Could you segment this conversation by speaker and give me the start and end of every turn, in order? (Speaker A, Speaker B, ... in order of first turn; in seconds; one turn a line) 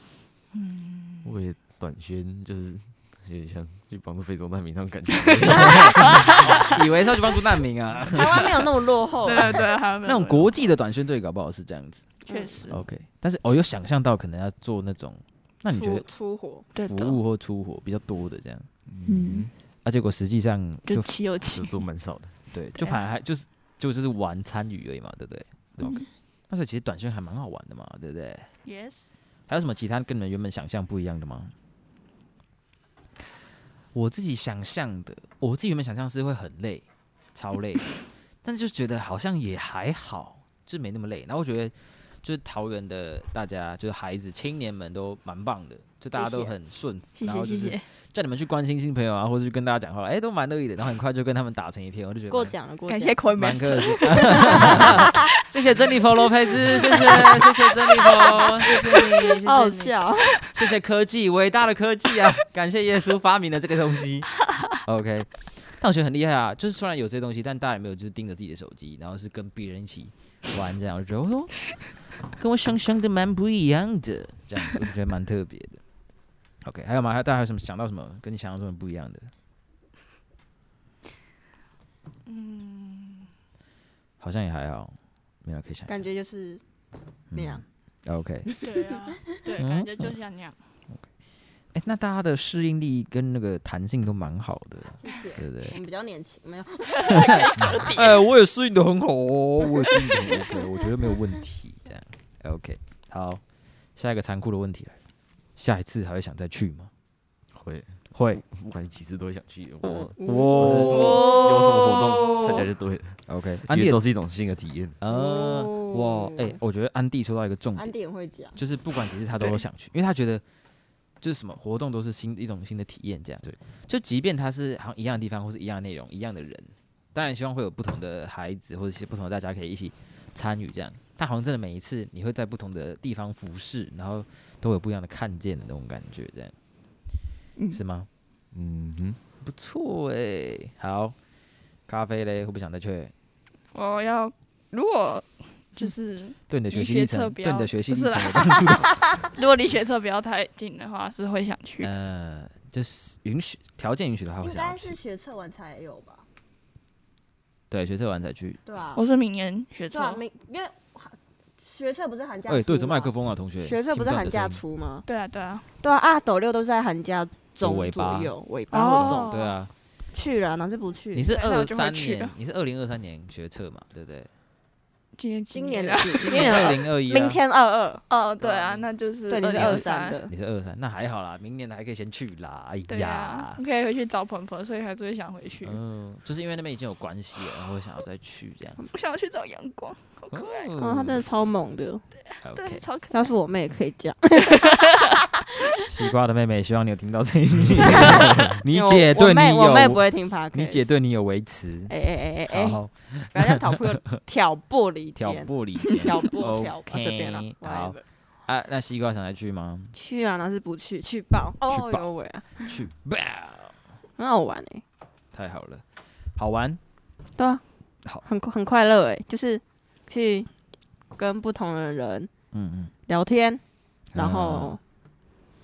Speaker A: 0.5-1.3
Speaker B: 1.2-6.7
Speaker A: 5.2-6.8
Speaker C: 5.6-8.7
Speaker D: 8.1-9.6
Speaker A: 9.2-10.7
Speaker C: 10.0-12.0
Speaker A: 12.2-12.8
Speaker D: 12.3-12.7
Speaker C: 12.7-16.1
Speaker D: 15.7-16.7
Speaker A: 16.7-17.2
Speaker C: 16.8-18.7
Speaker B: 18.9-19.5
Speaker A: 19.1-19.5
Speaker C: 19.8-21.1
Speaker A: 20.9-21.8
Speaker B: 21.5-22.4
Speaker C: 22.5-28.5
Speaker A: 22.8-23.0
Speaker A: 25.8-26.1
Speaker A: 28.6-29.1
Speaker C: 29.5-31.5
Speaker C: 33.9-52.5
Speaker D: 46.1-46.5
Speaker A: 47.2-47.9
Speaker D: 52.3-53.2
Speaker A: 52.9-55.4
Speaker C: 53.4-75.8
Speaker D: 54.3-55.2
Speaker A: 56.7-58.4
Speaker D: 58.1-60.4
Speaker C: 76.6-79.3
Speaker A: 82.3-83.3
Speaker C: 84.2-86.1
Speaker D: 85.9-86.6
Speaker C: 87.3-88.5
Speaker D: 87.3-87.6
Speaker D: 88.5-89.0
Speaker A: 88.6-90.6
Speaker C: 89.6-90.1
Speaker C: 91.7-95.8
Speaker D: 95.0-98.0
Speaker A: 96.9-98.2
Speaker C: 97.2-103.4
Speaker C: 104.0-105.0
Speaker C: 105.6-106.9
Speaker B: 107.5-115.0
Speaker C: 108.1-108.4
Speaker C: 109.8-111.3
Speaker D: 110.2-112.7
Speaker C: 113.3-114.0
Speaker C: 115.0-117.9
Speaker D: 115.1-116.6
Speaker D: 117.8-118.6
Speaker C: 118.6-120.4
Speaker C: 121.2-136.6
Speaker C: 137.7-138.1
Speaker B: 138.5-139.2
Speaker C: 139.4-141.2
Speaker C: 141.9-143.1
Speaker A: 143.7-151.9
Speaker C: 146.5-149.3
Speaker C: 151.8-155.0
Speaker D: 154.4-156.2
Speaker C: 157.7-158.6
Speaker D: 158.7-159.0
Speaker A: 158.9-160.2
Speaker D: 159.9-165.1
Speaker C: 162.5-164.6
Speaker A: 165.1-165.7
Speaker D: 165.8-169.5
Speaker C: 167.6-169.7
Speaker A: 168.7-169.5
Speaker D: 170.1-171.3
Speaker C: 171.1-174.3
Speaker A: 171.3-172.3
Speaker A: 175.2-176.8
Speaker D: 175.5-178.0
Speaker C: 176.3-177.4
Speaker A: 178.1-180.2
Speaker C: 178.4-178.9
Speaker D: 179.3-180.3
Speaker C: 179.5-183.6
Speaker A: 182.9-185.8
Speaker C: 185.6-188.8
Speaker A: 188.8-190.7
Speaker C: 190.3-191.2
Speaker D: 190.8-192.0
Speaker A: 192.2-193.3
Speaker C: 192.4-192.8
Speaker D: 193.1-195.2
Speaker A: 194.5-195.0
Speaker C: 195.8-201.9
Speaker D: 198.0-200.9
Speaker D: 201.9-208.0
Speaker C: 202.5-204.0
Speaker C: 205.2-209.9
Speaker D: 209.9-212.8
Speaker C: 211.7-212.1
Speaker C: 212.6-213.8
Speaker D: 214.2-214.8
Speaker C: 215.3-215.8
Speaker C: 216.3-216.8
Speaker D: 217.4-217.6
Speaker D: 218.2-220.5
Speaker D: 221.2-222.3
Speaker C: 222.5-222.9
Speaker D: 223.1-223.6
Speaker C: 224.1-224.8
Speaker D: 224.2-224.8